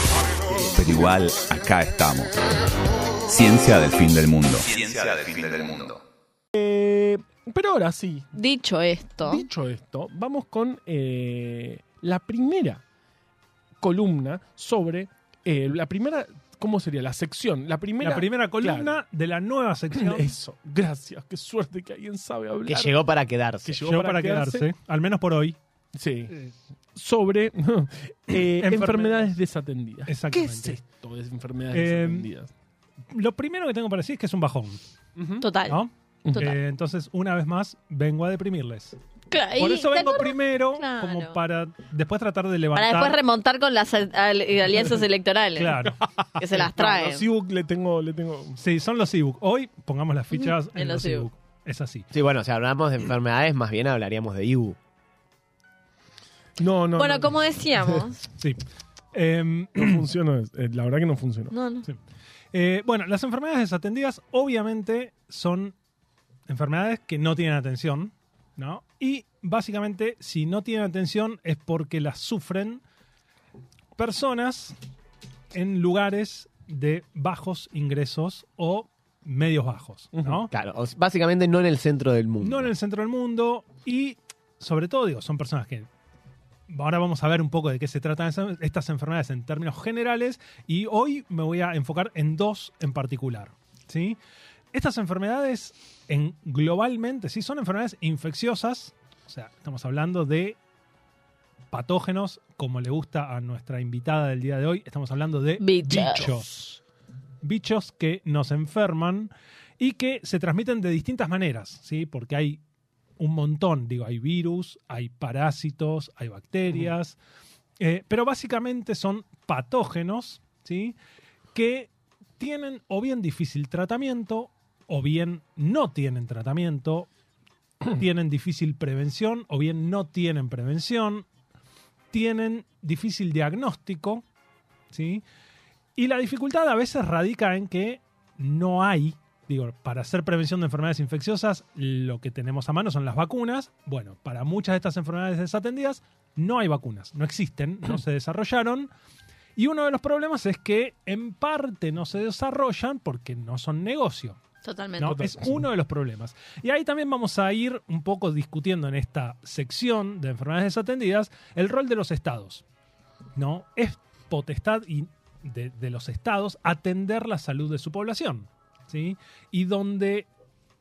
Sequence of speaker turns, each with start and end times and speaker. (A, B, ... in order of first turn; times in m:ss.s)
0:00.6-0:02.4 A
0:03.3-0:06.0 A
0:06.6-0:08.3 B
0:08.4-0:09.4 C
0:09.2-0:12.8 B
0:13.8-0:18.9 B
0:18.0-0:20.3 D
0:19.9-0:23.0 B
0:22.7-0:23.8 E
0:23.6-0:24.7 B
0:23.8-0:25.6 D
0:25.9-0:26.3 B
0:27.0-0:32.5 B
0:28.4-0:29.4 D
0:30.1-0:30.8 D
0:31.7-0:32.3 D
0:33.1-0:34.8 D
0:35.2-0:35.5 B
0:35.4-0:35.8 C
0:35.7-0:39.0 D
0:36.2-0:36.5 B
0:39.3-0:41.4 C
0:39.6-0:43.2 D
0:42.8-0:45.8 C
0:45.6-0:46.1 D
0:46.4-0:47.2 C
0:46.4-0:48.6 B
0:48.6-0:52.1 D
0:50.3-0:51.3 C
0:52.1-0:54.8 E
0:56.6-0:57.4 B
0:57.0-0:58.2 C
0:58.4-1:00.1 D
0:59.8-1:01.6 B
1:01.5-1:01.9 C
1:02.5-1:05.8 D
1:06.5-1:12.8 D
1:14.0-1:14.8 D
1:15.5-1:20.5 D
1:20.1-1:20.4 B
1:20.5-1:22.7 E
1:22.4-1:25.9 D
1:26.7-1:34.2 D
1:34.7-1:40.6 D
1:41.7-1:46.8 D
1:45.6-1:46.4 C
1:47.4-1:52.6 D
1:53.2-1:57.2 D
1:57.8-2:01.0 D
2:01.5-2:07.1 D
2:07.9-2:11.3 D
2:12.1-2:14.2 D
2:14.9-2:15.2 D
2:16.0-2:28.9 D
2:29.6-2:34.4 D
2:34.6-2:35.2 C
2:35.0-2:42.6 D
2:35.0-2:35.6 B
2:43.4-2:50.3 D